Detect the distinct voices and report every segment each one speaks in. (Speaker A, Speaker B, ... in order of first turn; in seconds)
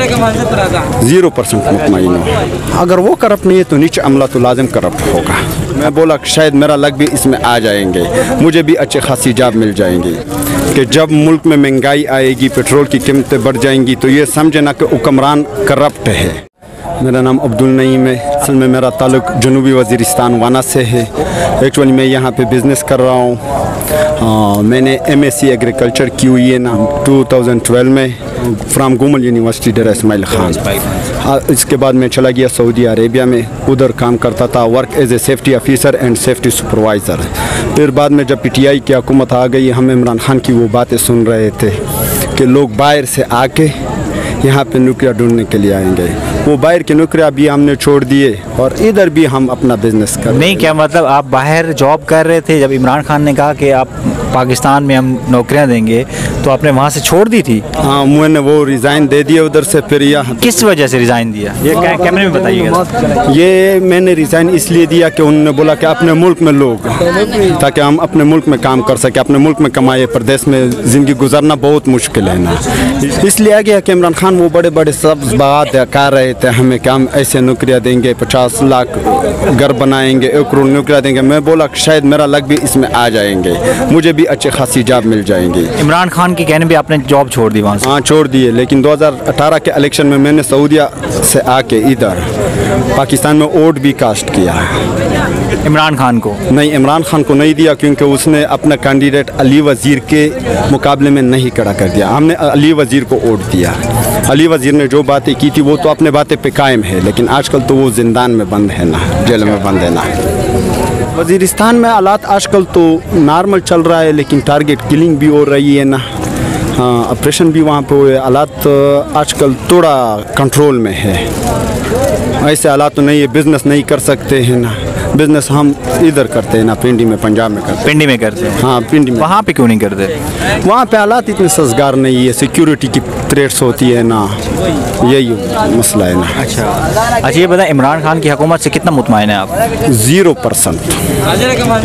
Speaker A: 1.0-10.2, 10.7-16.4, 17.0-23.4, 24.2-41.8, 42.3-43.7, 44.4-50.7, 57.8-60.6, 63.2-85.7, 87.8-92.2, 92.9-94.7, 96.5-110.1, 111.1-116.0, 116.8-121.3, 122.4-127.9, 128.6-129.3, 130.6-134.4, 135.0-136.4, 139.8-141.0
Speaker B: 50.3-57.6, 60.4-62.9, 85.8-87.9, 95.6-96.4, 127.8-128.6, 129.2-130.1, 136.4-139.5